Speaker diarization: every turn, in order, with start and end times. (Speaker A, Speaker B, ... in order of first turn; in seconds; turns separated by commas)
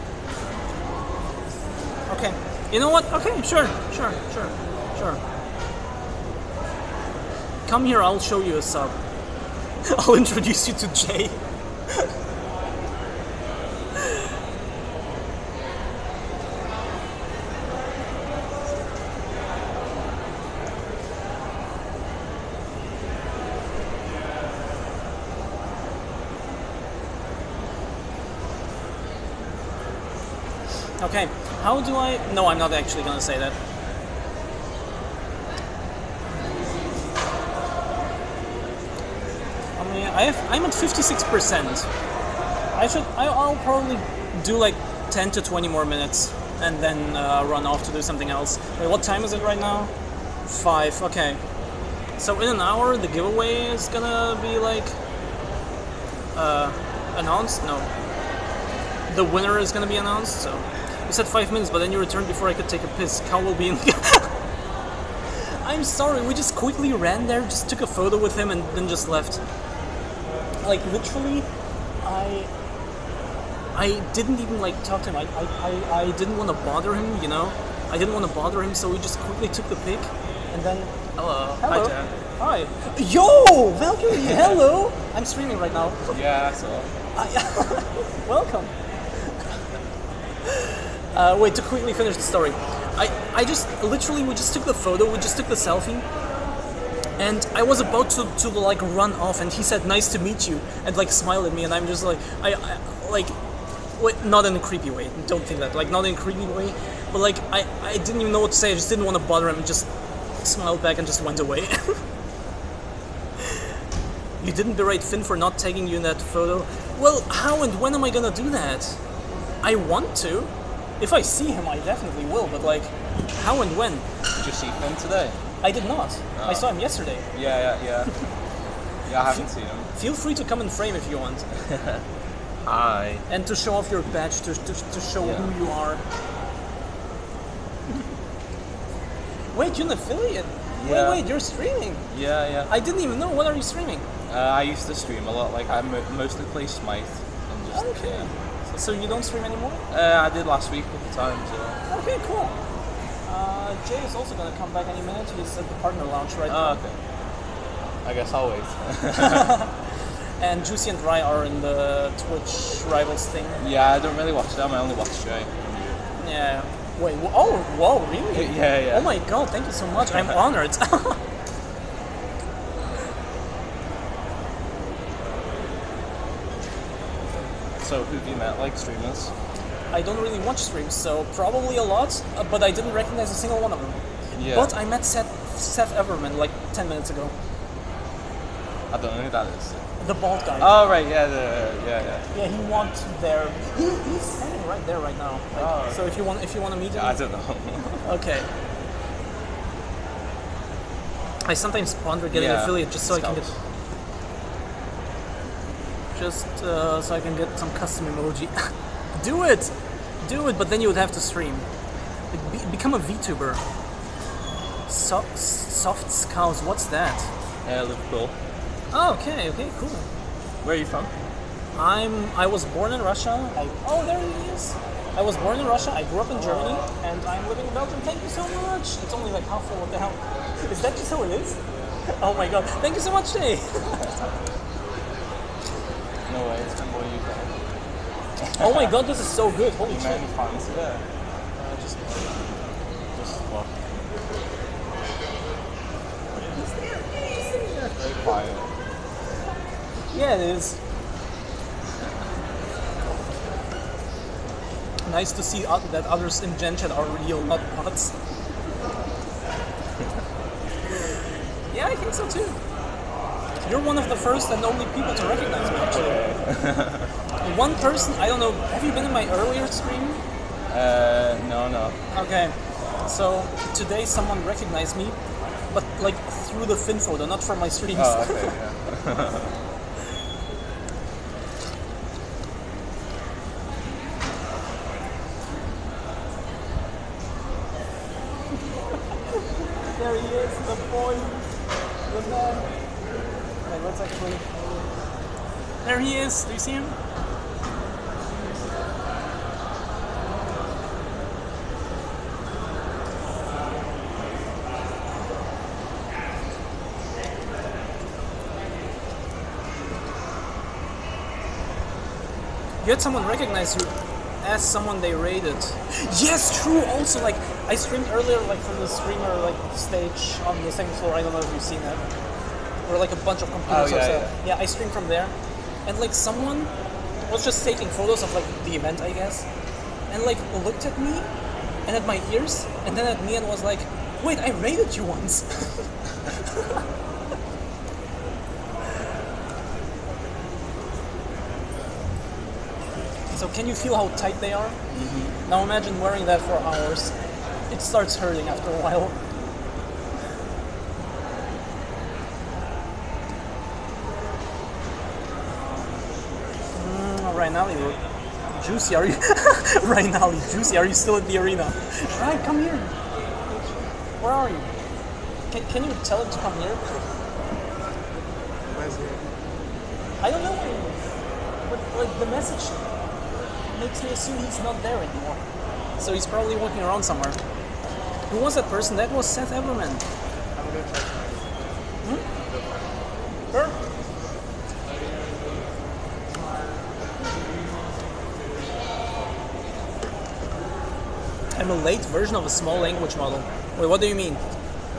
Speaker A: 2.1-5.2, Speaker A: 7.7-8.9, Speaker A: 9.9-11.4, Speaker A: 31.0-33.6, Speaker A: 39.8-41.9, Speaker A: 42.7-49.9, Speaker A: 50.5-51.4, Speaker A: 52.2-55.0, Speaker A: 56.4-57.9, Speaker A: 59.1-64.3, Speaker A: 65.4-69.4, Speaker A: 70.6-71.5, Speaker A: 72.0-72.5, Speaker A: 73.7-86.0, Speaker B: 81.2-82.2, Speaker B: 86.1-86.9, Speaker A: 87.2-88.7, Speaker A: 90.5-96.1, Speaker A: 97.2-103.3, Speaker A: 104.0-109.9, Speaker A: 110.4-112.0, Speaker A: 114.4-119.0, Speaker A: 119.6-124.1, Speaker B: 124.4-125.4, Speaker A: 125.6-127.3, Speaker B: 126.4-126.6, Speaker B: 127.3-128.1, Speaker B: 129.1-129.9, Speaker A: 129.9-131.4, Speaker B: 131.7-132.0, Speaker B: 132.7-133.2, Speaker A: 133.3-136.0, Speaker B: 135.2-135.5, Speaker A: 139.5-142.0, Speaker B: 140.8-141.2, Speaker B: 142.1-142.7, Speaker A: 142.7-144.1, Speaker B: 144.3-148.3, Speaker A: 147.7-149.8, Speaker B: 149.9-151.8, Speaker A: 151.9-152.6, Speaker A: 153.3-156.8, Speaker B: 156.5-156.9, Speaker B: 158.0-159.6, Speaker A: 159.2-159.7, Speaker A: 160.4-163.6, Speaker B: 163.6-166.0, Speaker A: 166.2-171.2, Speaker B: 168.3-169.2, Speaker B: 177.8-179.3, Speaker A: 179.9-187.3, Speaker B: 184.4-184.7, Speaker B: 188.9-189.8, Speaker A: 190.0-190.7, Speaker B: 190.6-192.2, Speaker A: 192.3-197.2, Speaker B: 195.6-196.2, Speaker B: 196.9-198.0, Speaker A: 198.0-198.5, Speaker A: 201.4-203.5, Speaker B: 202.3-203.5, Speaker A: 206.2-211.7, Speaker A: 212.3-213.6, Speaker A: 214.9-217.3, Speaker B: 217.7-218.3, Speaker A: 218.9-220.1, Speaker B: 220.6-221.1, Speaker A: 221.8-231.6, Speaker A: 232.2-234.0, Speaker B: 236.3-237.5, Speaker B: 238.4-238.9, Speaker A: 238.6-240.2, Speaker B: 239.9-241.0, Speaker A: 241.6-242.2, Speaker B: 243.1-243.7, Speaker A: 246.4-248.0, Speaker B: 248.0-248.7, Speaker A: 250.1-250.8, Speaker A: 255.1-258.1, Speaker A: 261.7-262.6, Speaker A: 263.6-266.2, Speaker B: 265.9-267.1, Speaker A: 267.4-270.2, Speaker B: 270.7-272.0, Speaker A: 272.1-272.5, Speaker A: 273.1-275.2, Speaker A: 275.7-278.5, Speaker B: 278.0-279.6, Speaker A: 290.0-291.4, Speaker A: 292.1-292.7, Speaker A: 293.7-294.4, Speaker A: 295.8-296.9, Speaker A: 312.8-322.0, Speaker A: 322.9-325.3, Speaker B: 323.7-324.4, Speaker A: 325.9-326.7, Speaker A: 327.3-329.5, Speaker A: 330.1-331.3, Speaker A: 331.9-335.9, Speaker A: 343.3-344.8, Speaker B: 344.9-345.3, Speaker A: 345.5-347.1, Speaker A: 347.7-349.2, Speaker A: 356.7-358.0, Speaker A: 358.5-362.9, Speaker A: 363.5-364.7, Speaker A: 365.5-366.8, Speaker C: 368.6-369.3, Speaker A: 370.2-371.0, Speaker A: 371.7-372.8, Speaker A: 373.7-375.4, Speaker A: 376.0-377.4, Speaker A: 378.3-380.0, Speaker C: 380.5-381.8, Speaker C: 382.3-383.0, Speaker A: 383.5-383.8, Speaker A: 391.6-394.4